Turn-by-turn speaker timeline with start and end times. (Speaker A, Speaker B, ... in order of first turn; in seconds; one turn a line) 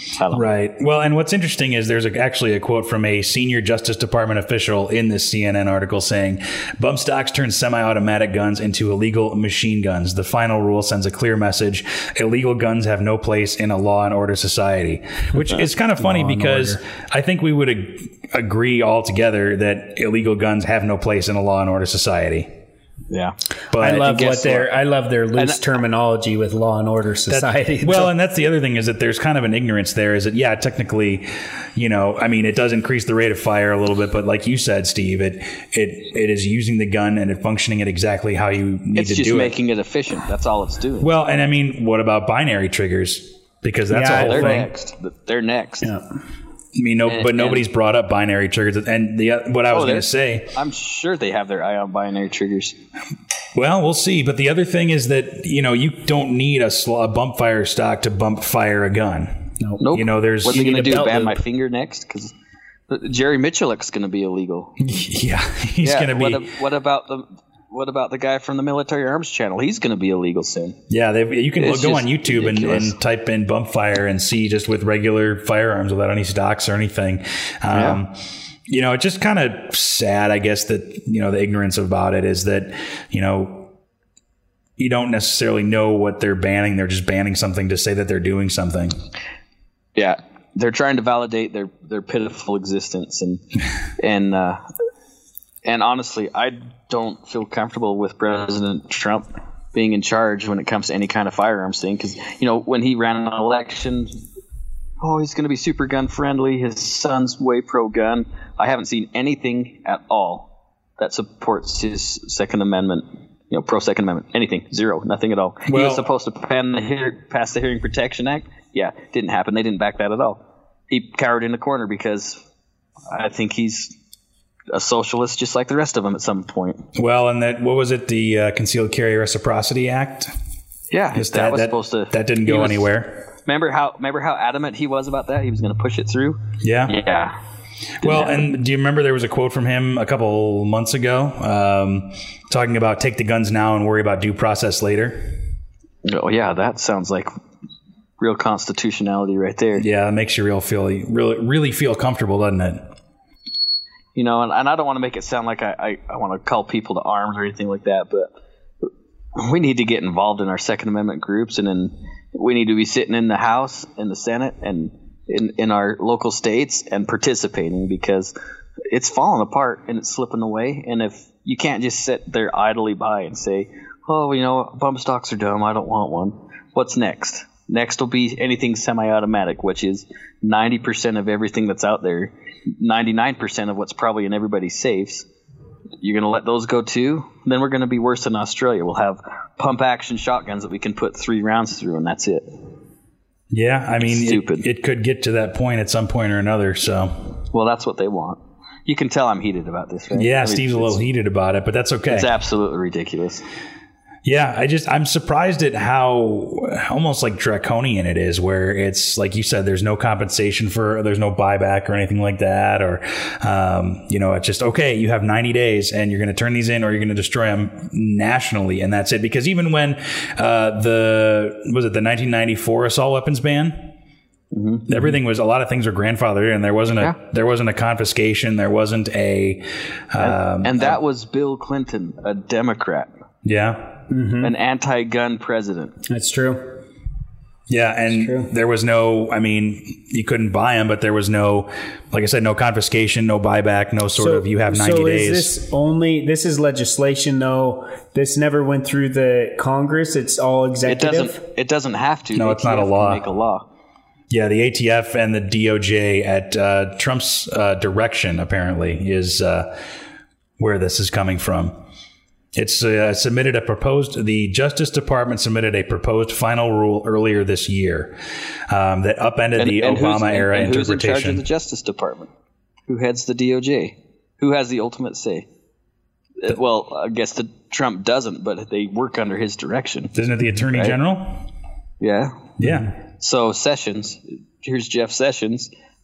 Speaker A: 0.1-0.4
Speaker B: 0.3-22.5
Speaker C: 16.0-16.8
Speaker A: 23.1-24.7
Speaker B: 23.7-24.1
Speaker C: 23.8-28.1
Speaker B: 27.3-39.6
Speaker A: 39.0-41.1
Speaker B: 41.0-44.7
Speaker C: 43.9-44.7
Speaker A: 44.1-45.9
Speaker C: 45.8-46.1
Speaker B: 46.7-50.5
Speaker A: 47.0-47.6
Speaker A: 49.7-52.8
Speaker B: 53.5-60.8
Speaker C: 59.6-59.9
Speaker A: 59.8-62.3
Speaker C: 60.4-61.4
Speaker A: 62.9-64.8
Speaker B: 64.8-66.5
Speaker A: 65.8-70.8
Speaker B: 70.9-78.1
Speaker A: 71.6-72.9
Speaker A: 77.7-78.0
Speaker B: 78.7-83.7
Speaker B: 84.8-88.9
Speaker A: 90.0-93.4
Speaker A: 94.0-94.6
Speaker A: 95.6-104.2
Speaker A: 105.0-122.4
Speaker B: 115.7-116.1
Speaker A: 123.1-123.9
Speaker A: 124.7-126.9
Speaker B: 127.0-130.3
Speaker A: 130.9-132.9
Speaker B: 131.1-133.2
Speaker A: 133.4-137.4
Speaker B: 136.6-137.0
Speaker A: 138.0-138.4
Speaker B: 138.0-145.4
Speaker A: 146.0-147.3
Speaker A: 148.2-149.8
Speaker B: 149.8-152.9
Speaker A: 154.1-158.3
Speaker A: 158.8-168.3
Speaker A: 168.9-185.3
Speaker A: 186.0-192.5
Speaker B: 193.5-197.3
Speaker A: 194.0-194.6
Speaker A: 197.5-201.0
Speaker B: 200.1-202.3
Speaker A: 202.1-203.4
Speaker B: 204.2-223.9
Speaker A: 224.5-224.9
Speaker B: 224.9-231.0
Speaker A: 230.2-233.1
Speaker B: 233.4-233.9
Speaker C: 234.1-234.5
Speaker A: 234.4-235.9
Speaker C: 236.1-236.8
Speaker B: 237.7-245.5
Speaker C: 238.1-238.5
Speaker C: 244.2-251.4
Speaker A: 250.8-253.7
Speaker B: 252.3-253.2
Speaker B: 254.3-259.8
Speaker B: 260.6-261.7
Speaker B: 262.5-268.2
Speaker B: 268.7-271.4
Speaker A: 269.6-272.3
Speaker A: 272.9-275.5
Speaker A: 276.4-280.1
Speaker B: 280.1-281.4
Speaker A: 282.0-282.5
Speaker B: 282.6-282.9
Speaker A: 283.2-285.7